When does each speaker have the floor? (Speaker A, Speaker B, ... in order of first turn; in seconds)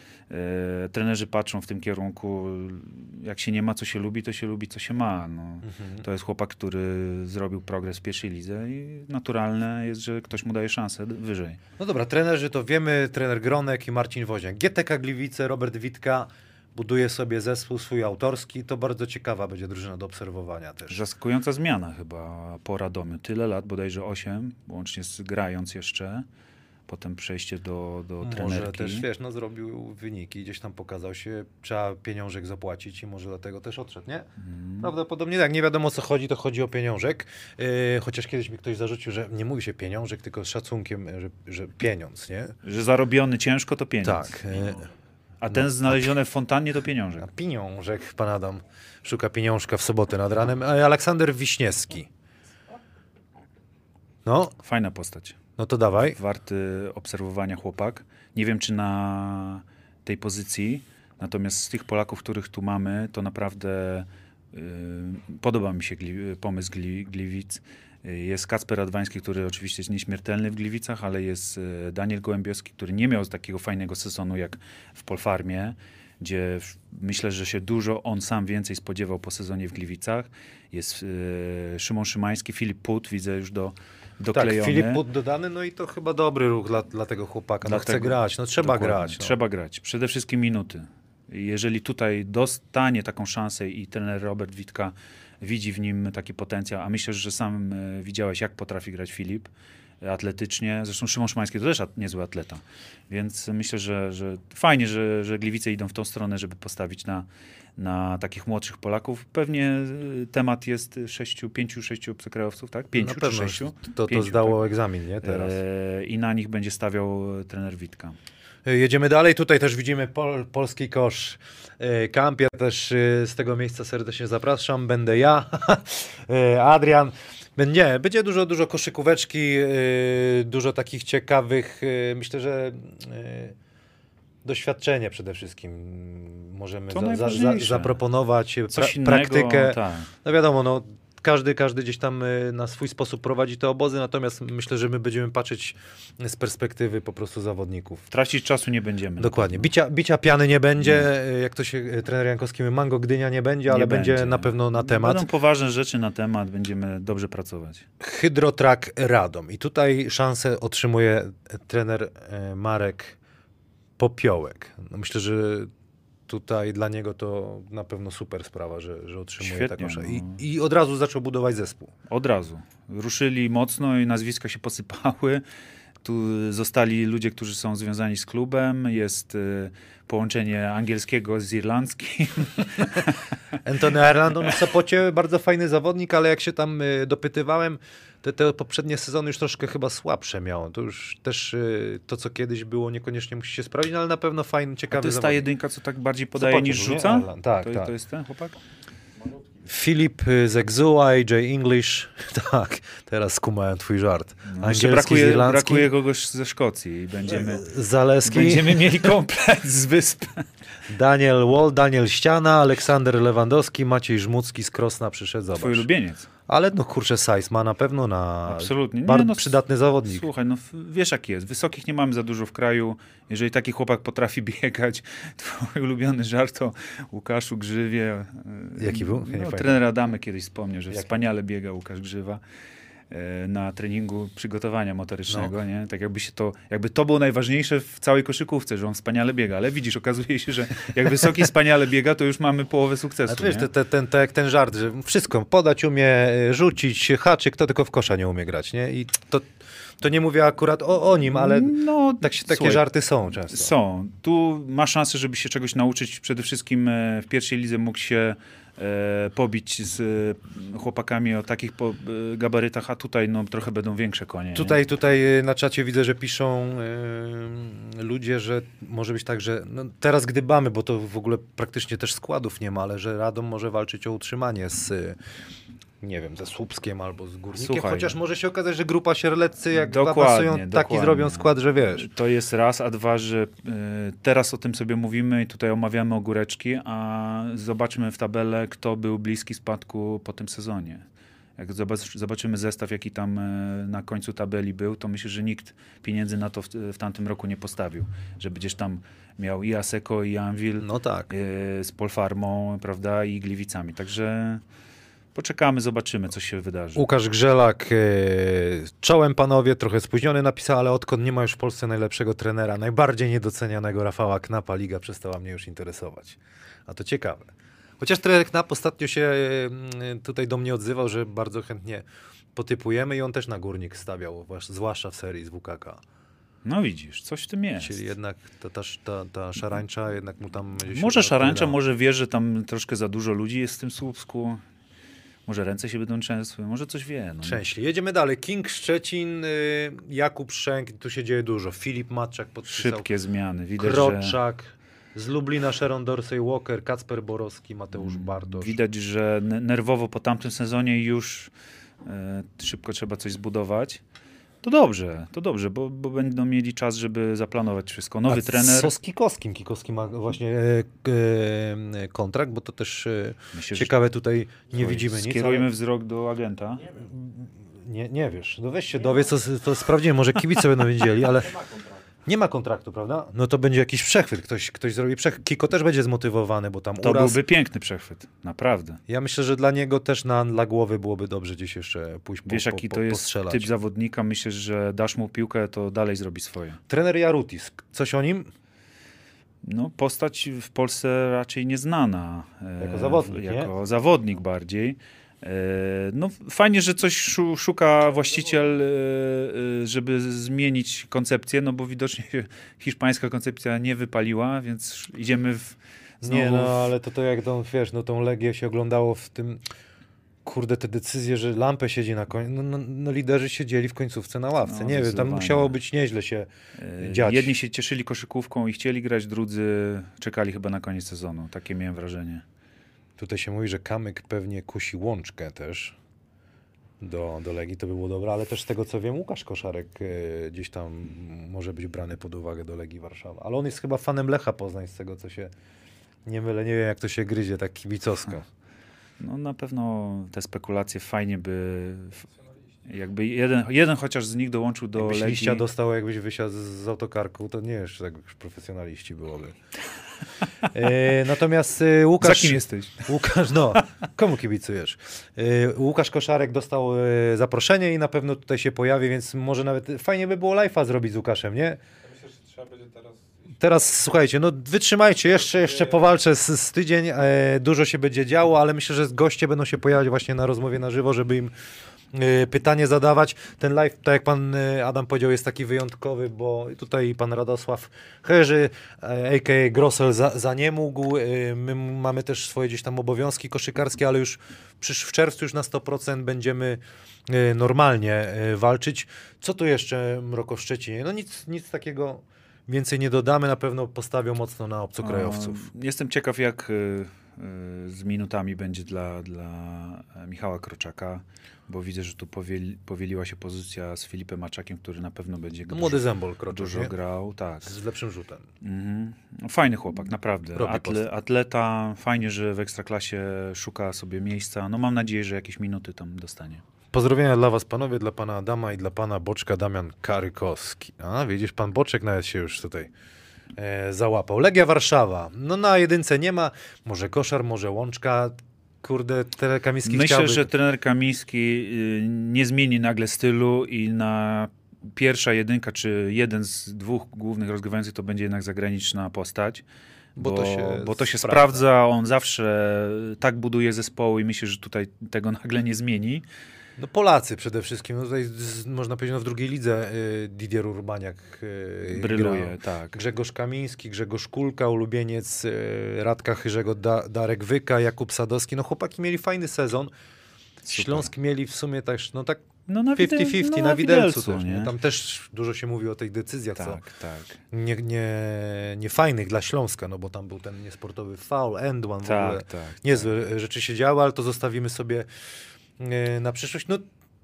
Speaker A: 0.3-11.6, 20.9-26.2, 26.9-29.1, 34.4-34.9, 42.6-44.8, 45.4-47.3, 54.6-55.4, 56.1-85.0, 87.6-99.5, 100.0-114.6, 115.2-118.2, 136.9-138.0, 138.7-140.1, 148.1-149.7, 150.8-151.1, 153.7-157.8, 169.4-170.4, 172.1-175.4, 176.0-183.3, 194.9-198.6, 204.5-207.6, 208.2-210.4, 215.5-216.3, 218.4-232.4, 233.1-243.7, 251.3-252.8, 253.5-264.8, 277.5-278.2, 279.7-291.0, 291.6-304.6, 305.3-307.1, 326.6-328.0, 330.9-334.6, 335.5-337.6, 342.7-344.4, 347.9-351.5, 352.0-354.0, 354.6-358.9, 363.5-364.0, 364.7-366.9, 377.0-379.0, 382.4-386.8, 389.6-406.8, 414.6-415.8, 416.8-422.4, 439.2-442.3, 442.9-445.6, 452.2-453.2, 495.0-507.8, 508.6-516.6, 529.8-539.6, 540.1-546.2, 551.9-553.0, 560.6-561.1, 562.7-564.7, 566.5-567.4, 572.0-573.0
Speaker B: 5.6-6.0, 11.8-21.0, 28.2-34.3, 34.8-42.6, 44.0-44.9, 45.5-46.1, 47.2-52.1, 54.2-54.5, 55.6-56.2, 84.3-89.3, 113.0-115.6, 118.6-133.6, 134.4-148.0, 149.2-155.3, 158.0-163.2, 164.0-165.7, 166.3-171.9, 183.6-195.5, 196.3-197.9, 199.6-205.9, 207.2-209.2, 210.9-215.9, 216.5-220.3, 228.8-229.8, 230.9-231.2, 235.3-235.5, 243.3-253.7, 264.5-275.2, 276.0-282.1, 300.8-301.3, 306.9-317.5, 318.0-326.0, 327.8-331.8, 337.4-343.1, 343.8-348.8, 358.3-365.7, 366.9-371.6, 372.2-377.4, 379.1-383.7, 386.9-388.5, 392.8-393.7, 406.2-409.6, 410.4-417.5, 423.2-425.9, 427.0-435.5, 436.2-438.4, 445.0-449.6, 450.7-461.8, 463.6-471.5, 472.1-495.6, 505.7-506.9, 507.6-508.5, 510.6-511.0, 516.9-522.9, 523.5-530.5, 540.1-541.6, 546.8-559.9, 560.7-562.5, 563.0-566.8, 567.5-575.1, 575.8-576.9
Speaker C: 462.0-464.1, 465.5-466.0